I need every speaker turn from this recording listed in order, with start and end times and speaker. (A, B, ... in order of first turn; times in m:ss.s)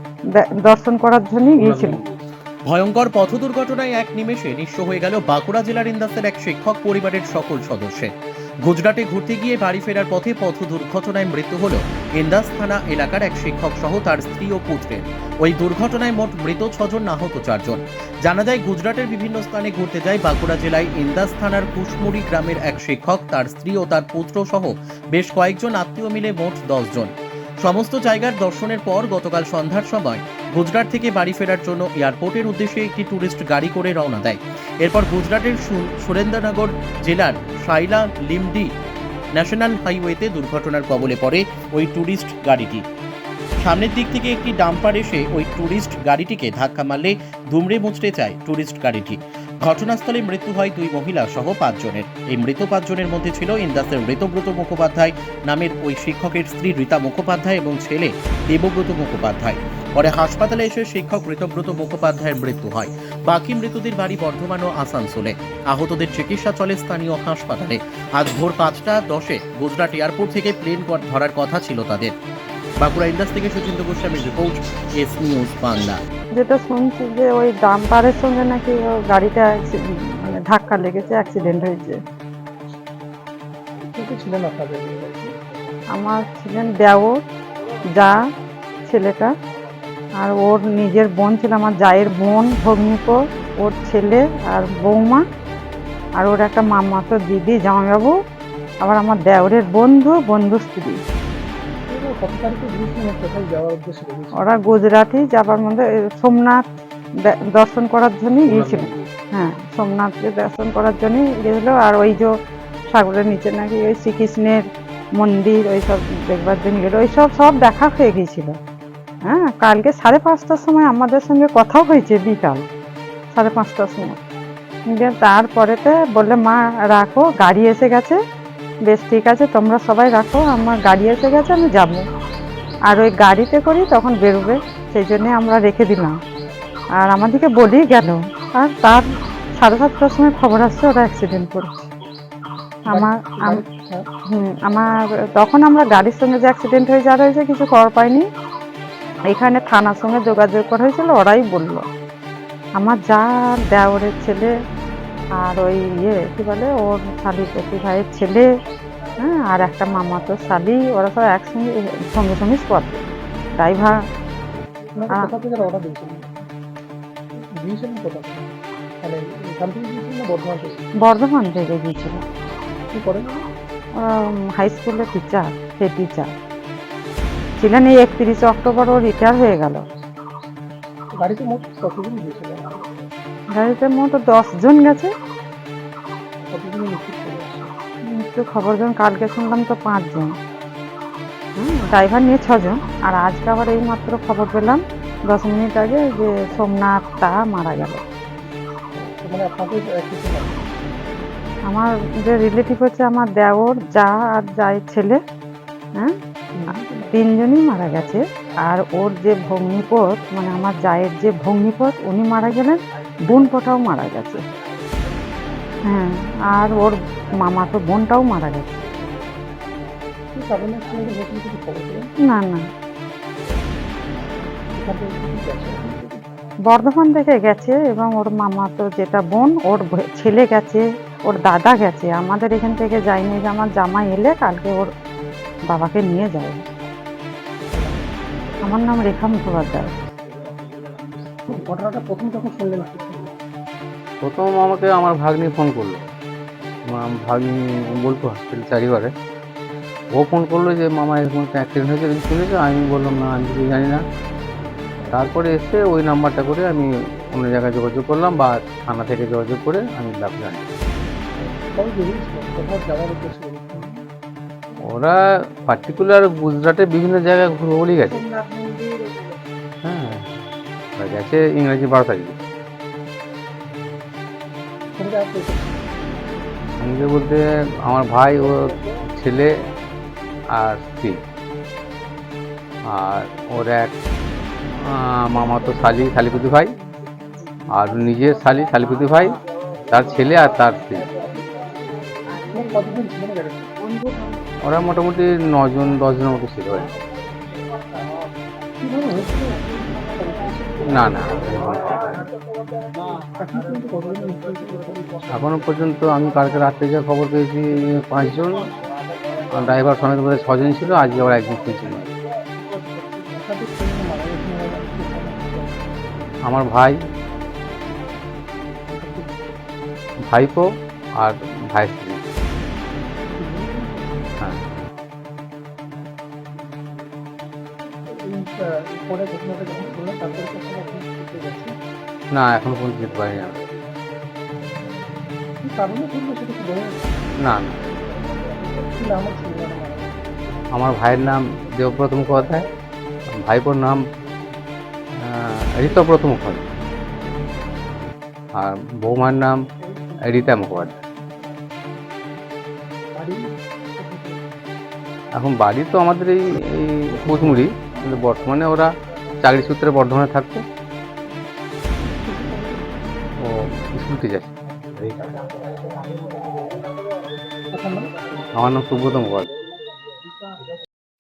0:00.4-0:02.0 A
0:01.6-0:01.9 B
0:02.7-0:08.1 C
0:08.6-0:38.7 C
0:39.3-0:42.8 C
0:43.6-1:12.1 C
1:12.8-1:16.0 C
1:16.4-1:22.0 A
1:23.8-1:25.4 D
1:25.9-1:27.2 A
1:28.9-1:29.3 A
1:30.2-1:35.2 A
1:36.2-1:38.2 A
1:38.8-1:41.0 A
1:41.9-1:44.5 D
1:44.4-1:46.6 A
1:47.2-1:52.3 A
1:48.5-1:49.1 B
1:52.9-1:54.6 A
1:55.2-1:58.6 A
1:59.2-2:02.6 A
2:03.3-2:04.2 A
2:04.9-2:08.2 A
2:08.9-2:12.0 A
2:12.9-2:16.1 A
2:17.0-2:19.1 A
2:19.6-2:21.9 A
2:22.9-2:23.6 A
2:22.9-2:24.1 D
2:24.3-2:28.3 A
2:29.3-2:31.9 A
2:32.8-2:34.5 A
2:35.4-2:38.5 A
2:39.2-2:43.0 A
2:43.6-2:44.0 A
2:44.9-2:46.4 D
2:47.4-2:50.9 D
2:51.0-2:52.2 A
2:52.9-2:53.5 D
2:54.0-2:56.3 A
2:57.6-2:59.9 A
3:01.1-3:02.9 D
3:03.5-3:05.1 A
3:06.4-3:07.7 D
3:08.1-3:10.3 A
3:11.6-3:18.0 A
3:19.0-3:20.8 D
3:21.7-3:25.2 A
3:26.5-3:27.2 D
3:27.1-3:34.4 A
3:35.9-3:38.8 A
3:40.3-3:42.1 D
3:42.2-3:42.6 A
3:44.7-3:46.2 D
3:46.7-3:54.9 A
3:55.7-3:56.6 A
3:57.7-3:58.0 D
3:58.7-3:59.9 A
4:01.5-4:03.3 D
4:04.2-4:06.1 B
4:06.9-4:09.1 B
4:10.2-4:14.0 B
4:15.1-4:20.7 B
4:21.4-4:24.0 D
4:24.9-4:28.2 B
4:28.1-4:29.4 A
4:29.8-4:30.3 B
4:31.0-4:32.4 B
4:35.0-4:36.2 D
4:36.8-4:39.5 B
4:40.6-4:41.2 B
4:42.9-4:43.9 B
4:44.7-4:46.8 B
4:47.7-4:51.1 B
4:52.5-4:53.7 D
4:54.6-4:56.9 B
4:58.8-5:00.8 D
5:00.9-5:02.3 B
5:03.4-5:05.5 D
5:05.3-5:08.7 B
5:09.5-5:12.1 B
5:12.8-5:15.8 D
5:16.4-5:17.0 B
5:18.9-5:19.3 D
5:20.3-5:22.2 B
5:23.3-5:24.3 D
5:28.1-5:31.8 D
5:32.3-5:33.6 B
5:35.6-5:37.2 D
5:37.4-5:37.8 B
5:38.8-5:40.2 D
5:40.7-5:42.6 B
5:43.3-5:44.0 B
5:45.2-5:46.6 B
5:48.6-5:49.6 B
5:49.8-5:50.6 D
5:50.2-5:50.9 B
5:53.1-5:54.4 D
5:55.4-6:00.6 B
6:02.0-6:03.1 D
6:03.4-6:04.5 B
6:05.1-6:06.9 D
6:07.7-6:08.3 D
6:08.5-6:09.5 B